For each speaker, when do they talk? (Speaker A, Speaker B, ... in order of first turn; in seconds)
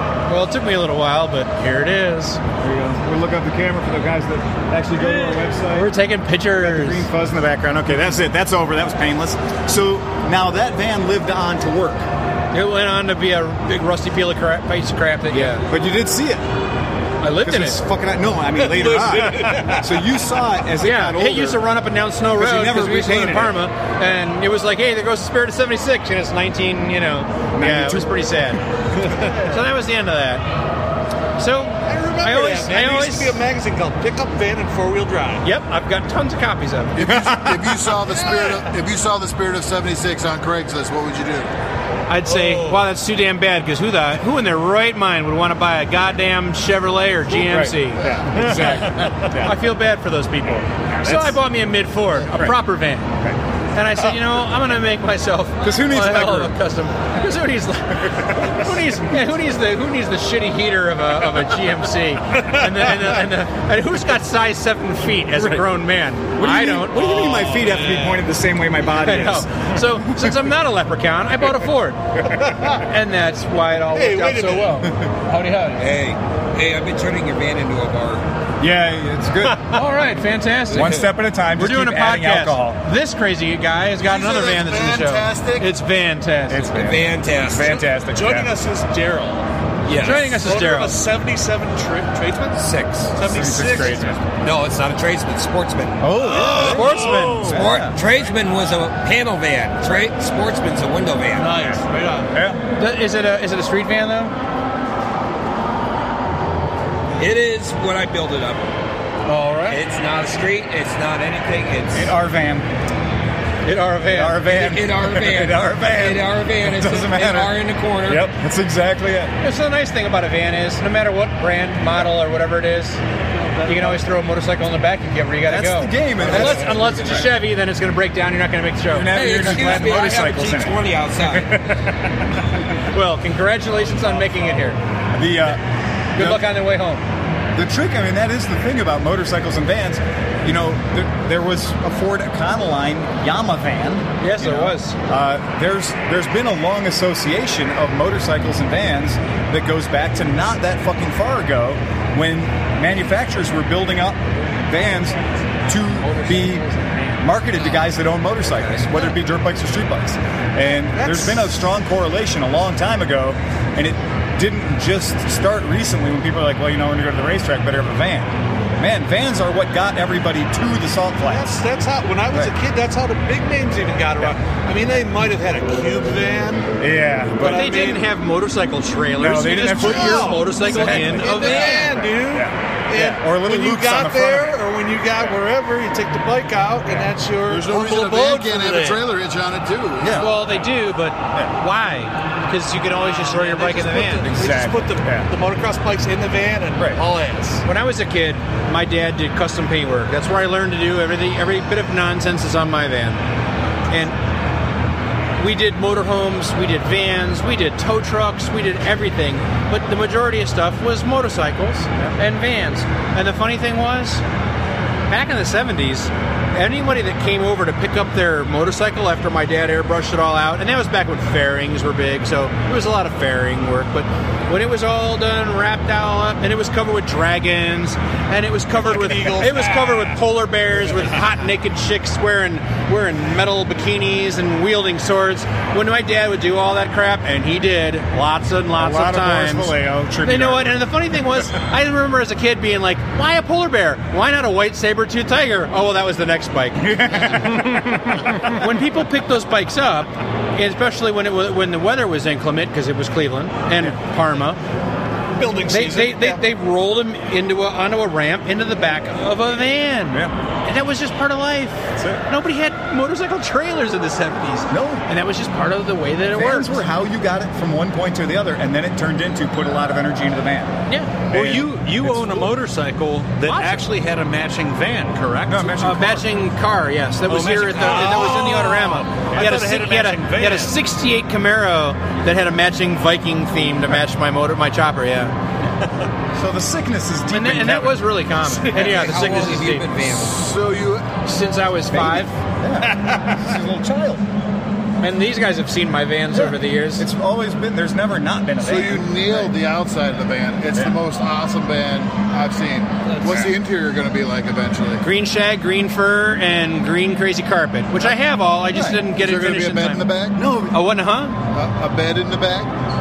Speaker A: 0.3-2.4, 5.0-7.0, 12.5-15.6, 17.2-17.8, 20.8-28.6, 29.4-30.4, 31.4-33.4, 35.4-37.3, 42.1-53.1, 53.7-67.3, 68.8-72.0, 72.7-75.8, 79.5-81.0, 81.5-86.9, 90.0-91.0, 96.5-97.6, 101.4-104.3, 109.3-109.8, 113.6-114.4, 119.4-123.0, 123.6-129.7, 132.9-134.8, 136.2-137.0, 144.2-144.9, 156.5-156.9, 177.4-182.0, 190.2-194.3, 197.6-203.2, 203.9-204.1, 205.4-214.2, 215.1-247.4, 248.5-254.6, 255.7-266.8, 270.9-271.2, 273.4-273.9, 275.8-285.3, 287.3-289.9, 291.2-292.3, 295.0-297.0, 305.0-310.1, 310.7-311.4
Speaker B: 2.6-5.9, 6.5-12.1, 15.3-16.4, 17.3-21.7, 22.2-23.6, 27.6-28.1, 37.0-37.8, 47.3-49.6, 51.0-51.4, 52.3-52.6, 55.6-56.5, 58.3-58.9, 65.3-65.7, 66.4-70.3, 78.6-79.9, 80.7-82.8, 86.5-88.5, 93.2-94.2, 96.0-98.0, 102.3-102.6, 111.9-112.7, 114.0-119.3, 125.4-127.4, 128.9-131.8, 135.1-135.6, 136.2-136.5, 137.5-156.7, 157.2-171.6, 176.8-178.0, 179.2-184.5, 190.0-190.3, 194.2-195.3, 238.8-240.9, 246.8-248.6, 261.9-262.2, 264.7-265.0, 266.2-270.8, 271.3-272.6, 275.5-276.3, 286.3-289.1, 291.9-294.2, 296.3-299.5, 303.2-303.5, 308.7-309.0, 310.3-310.8
Speaker C: 18.6-20.1, 29.0-29.6, 31.8-35.4, 38.2-38.6, 42.2-42.9, 67.3-68.2, 73.9-74.9, 87.5-89.4, 90.0-92.6, 93.1-94.2, 96.4-97.0, 123.3-123.8, 160.9-161.5, 171.2-176.7, 179.7-189.1, 193.1-197.6, 228.7-230.2, 255.3-256.4, 271.4-272.5, 273.4-274.0, 277.3-280.8, 292.9-293.3
Speaker D: 37.0-41.5, 84.0-85.7, 187.4-190.3, 290.0-291.1, 298.6-305.0, 309.1-310.4, 311.5-312.7
Speaker E: 75.8-78.2, 80.7-81.1, 86.8-87.7, 89.9-90.4, 92.6-93.1, 94.4-96.8, 97.4-101.7, 107.2-108.6, 109.7-112.1, 114.4-118.3, 126.2-127.4, 129.1-131.6, 158.6-158.8, 288.7-290.4
Speaker F: 271.7-273.6, 277.7-278.2, 279.4-280.1